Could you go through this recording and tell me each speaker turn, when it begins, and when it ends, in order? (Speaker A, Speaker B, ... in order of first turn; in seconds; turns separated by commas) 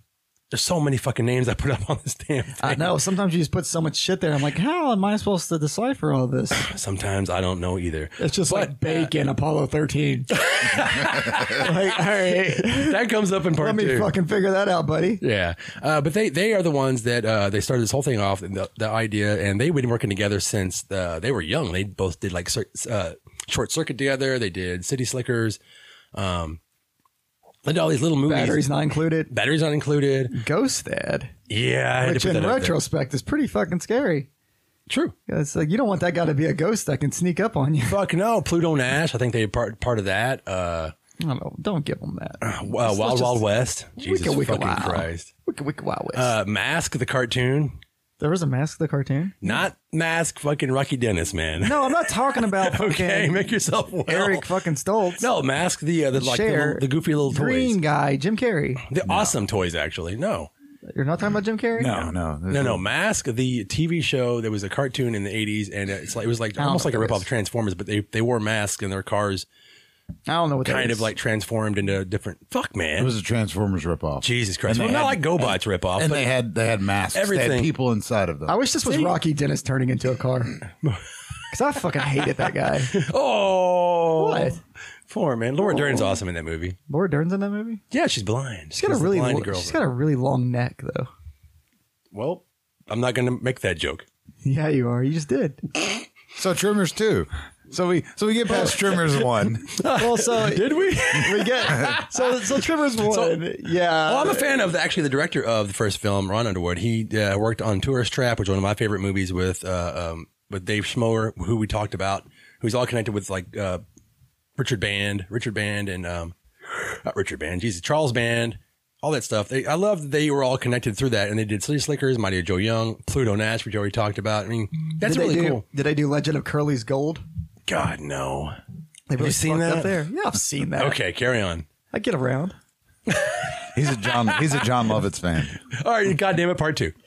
Speaker A: 0.5-2.9, Speaker B: 2.6-6.6, Speaker A: 6.6-9.1, Speaker B: 8.2-13.0, Speaker A: 10.4-14.1, Speaker B: 13.6-15.2, Speaker A: 15.2-25.6, Speaker A: 26.1-26.6, Speaker A: 27.6-28.7, Speaker B: 28.3-29.3, Speaker A: 29.3-30.4, Speaker B: 30.3-31.3, Speaker A: 31.5-32.8, Speaker B: 32.0-34.3, Speaker A: 34.9-35.1, Speaker B: 35.3-38.0, Speaker A: 37.9-40.9, Speaker B: 41.2-43.4, Speaker A: 42.4-45.3, Speaker B: 44.0-46.3, Speaker A: 46.1-47.8, Speaker B: 48.2-49.6, Speaker A: 49.4-54.5, Speaker B: 51.6-53.4, Speaker B: 54.1-55.3, Speaker A: 55.2-57.8, Speaker B: 56.1-58.8, Speaker A: 58.9-60.5, Speaker C: 59.0-59.4, Speaker B: 60.9-61.9, Speaker C: 61.8-62.8, Speaker A: 62.0-69.5, Speaker B: 66.6-67.2, Speaker B: 70.3-71.1, Speaker A: 70.7-73.2, Speaker C: 73.0-78.6, Speaker A: 74.2-76.3, Speaker A: 77.1-77.7, Speaker B: 78.5-80.6, Speaker A: 78.8-79.2, Speaker B: 81.5-82.9, Speaker A: 82.9-84.5, Speaker B: 84.2-84.6, Speaker A: 85.1-86.8, Speaker B: 85.7-86.2, Speaker B: 86.9-87.8, Speaker A: 87.9-89.8, Speaker B: 88.7-91.1, Speaker A: 92.1-94.0, Speaker B: 94.4-95.6, Speaker C: 96.4-99.7, Speaker A: 99.0-103.4, Speaker B: 99.9-104.6, Speaker A: 104.1-113.8, Speaker A: 114.6-125.6, Speaker B: 125.0-127.2, Speaker A: 127.7-128.6, Speaker B: 129.1-131.0, Speaker A: 129.2-130.0, Speaker A: 130.8-131.7, Speaker B: 131.9-132.5, Speaker A: 133.1-134.7, Speaker C: 133.7-135.6, Speaker A: 135.7-136.9